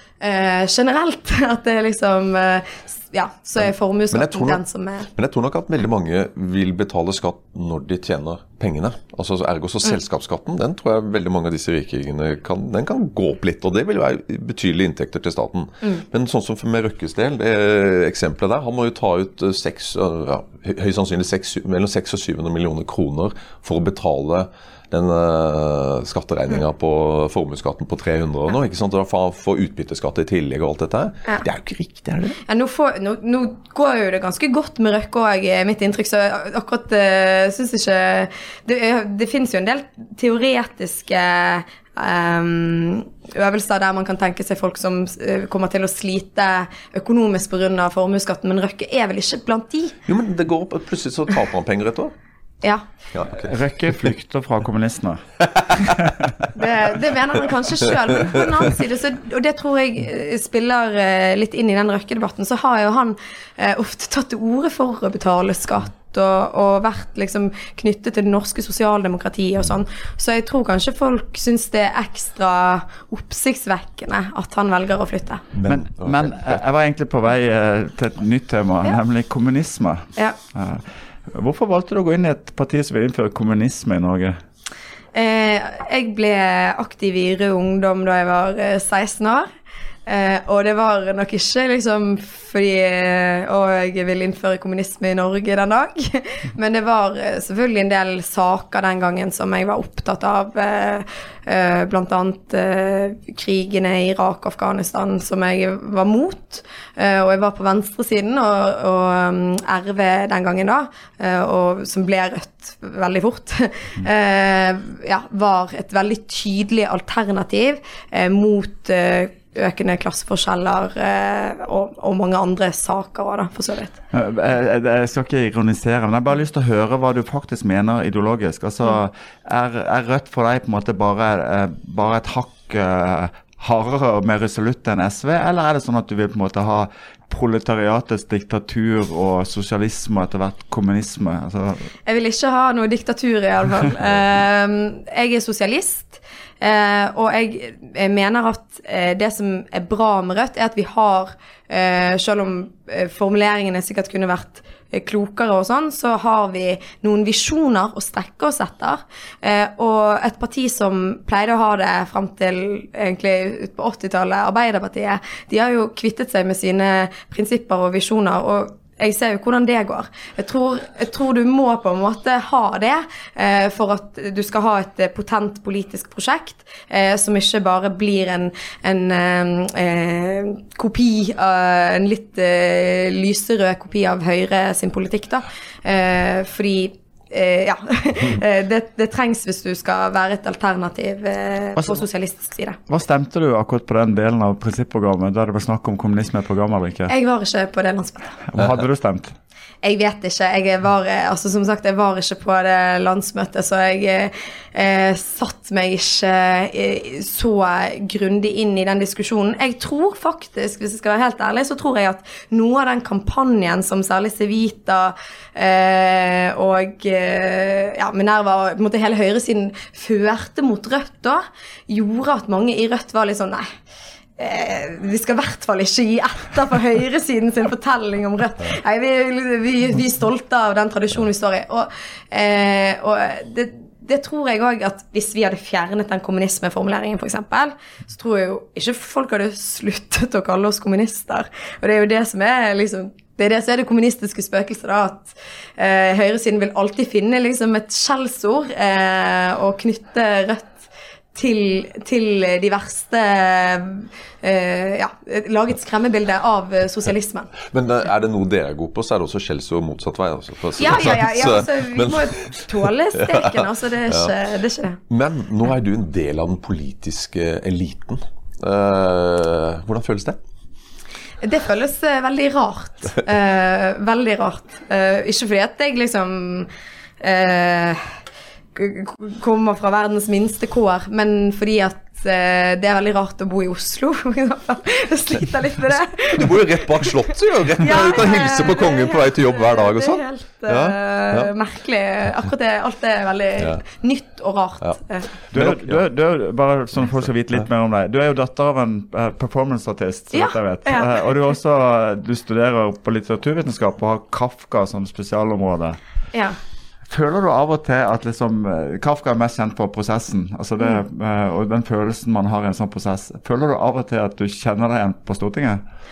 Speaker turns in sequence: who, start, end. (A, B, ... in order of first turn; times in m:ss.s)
0:00.2-0:05.1 A
0:04.1-0:04.6 B
0:05.1-0:32.4 B
0:32.5-0:50.0 A
0:50.1-0:52.1 B
0:53.1-0:53.5 B
0:53.4-0:55.2 C
0:55.5-0:55.8 B
0:55.8-0:56.3 C
0:56.5-1:15.4 A
1:15.5-1:16.4 B
1:15.7-1:24.4 C
1:25.1-1:29.5 A
1:30.0-2:04.0 A
2:04.1-2:21.9 C
2:22.0-3:12.8 A
3:11.8-3:12.0 C
3:12.9-3:17.1 C
3:17.1-3:18.3 A
3:18.5-3:19.3 C
3:19.8-3:43.6 A
3:44.4-4:17.5 A
4:17.7-4:24.3 B
4:20.8-4:25.0 A
4:25.1-4:30.4 B
4:31.4-4:36.7 A
4:37.2-4:38.2 A
4:38.7-4:47.1 A
4:46.3-4:51.5 B
4:47.8-4:55.3 A
4:55.5-4:56.0 B
4:55.5-5:06.0 C
5:00.3-5:01.2 A
5:07.1-5:15.8 C